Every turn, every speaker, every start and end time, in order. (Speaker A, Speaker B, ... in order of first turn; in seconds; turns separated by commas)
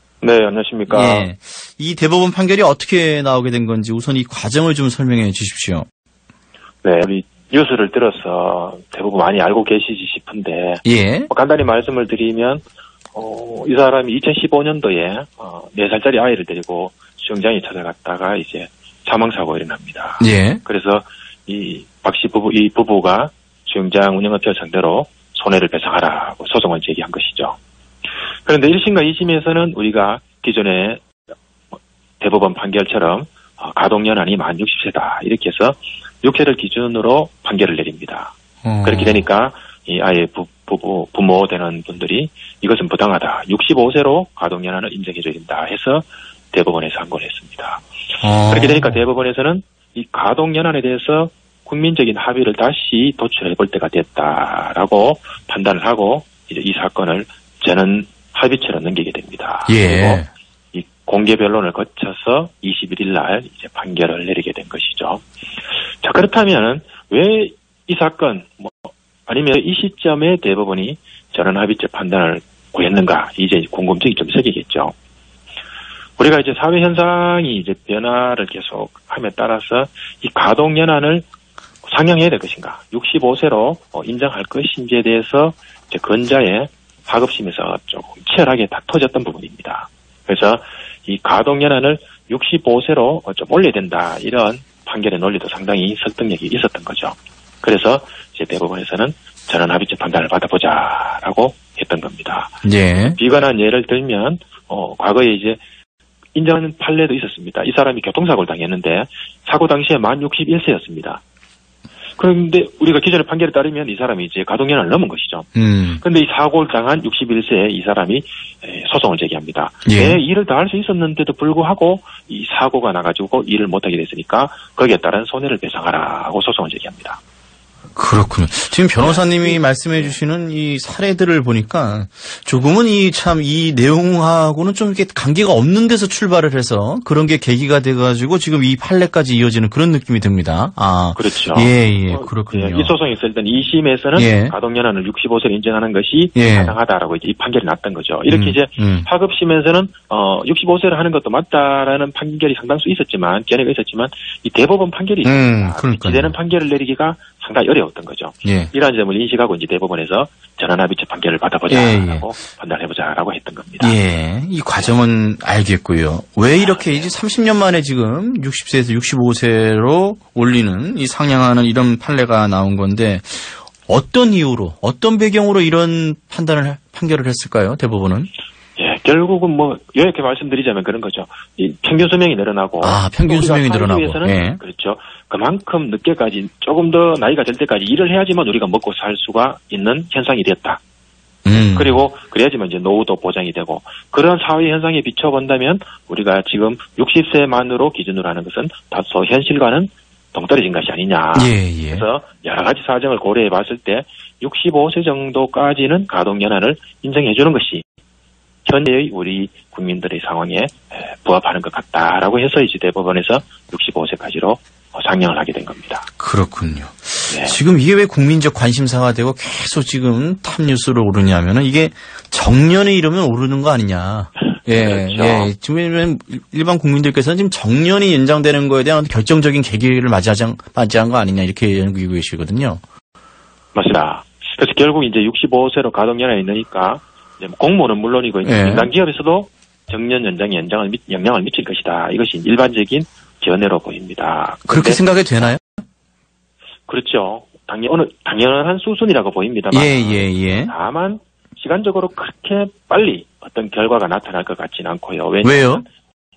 Speaker A: 0.2-1.3, Speaker B: 0.9-5.9, Speaker A: 6.8-12.6, Speaker B: 10.8-11.3, Speaker A: 13.1-27.6, Speaker B: 20.2-20.6, Speaker A: 28.4-31.0, Speaker A: 32.2-47.8, Speaker B: 38.6-39.2, Speaker B: 48.2-49.0, Speaker A: 48.5-65.2, Speaker B: 59.7-60.3, Speaker A: 66.0-74.9, Speaker A: 76.2-81.3, Speaker A: 81.8-102.6, Speaker B: 102.6-103.2, Speaker A: 103.2-105.6, Speaker A: 106.3-111.2, Speaker A: 112.2-127.2, Speaker B: 115.5-116.0, Speaker B: 119.8-120.2, Speaker B: 128.0-142.9, Speaker A: 129.0-130.2, Speaker A: 141.2-164.0, Speaker B: 144.2-144.6, Speaker B: 146.3-146.8, Speaker B: 148.3-149.1, Speaker B: 155.2-156.3, Speaker B: 158.4-158.7, Speaker B: 161.7-162.3, Speaker B: 163.8-178.3, Speaker A: 178.8-190.8, Speaker B: 182.8-184.6, Speaker B: 191.4-192.1, Speaker A: 191.5-207.8, Speaker B: 201.3-202.1, Speaker A: 208.7-216.1, Speaker B: 216.2-232.8, Speaker A: 217.3-217.6, Speaker A: 224.6-225.5, Speaker A: 233.7-245.1, Speaker B: 238.4-238.9, Speaker B: 244.7-245.6, Speaker A: 246.9-255.8, Speaker B: 249.7-250.7, Speaker B: 255.4-255.8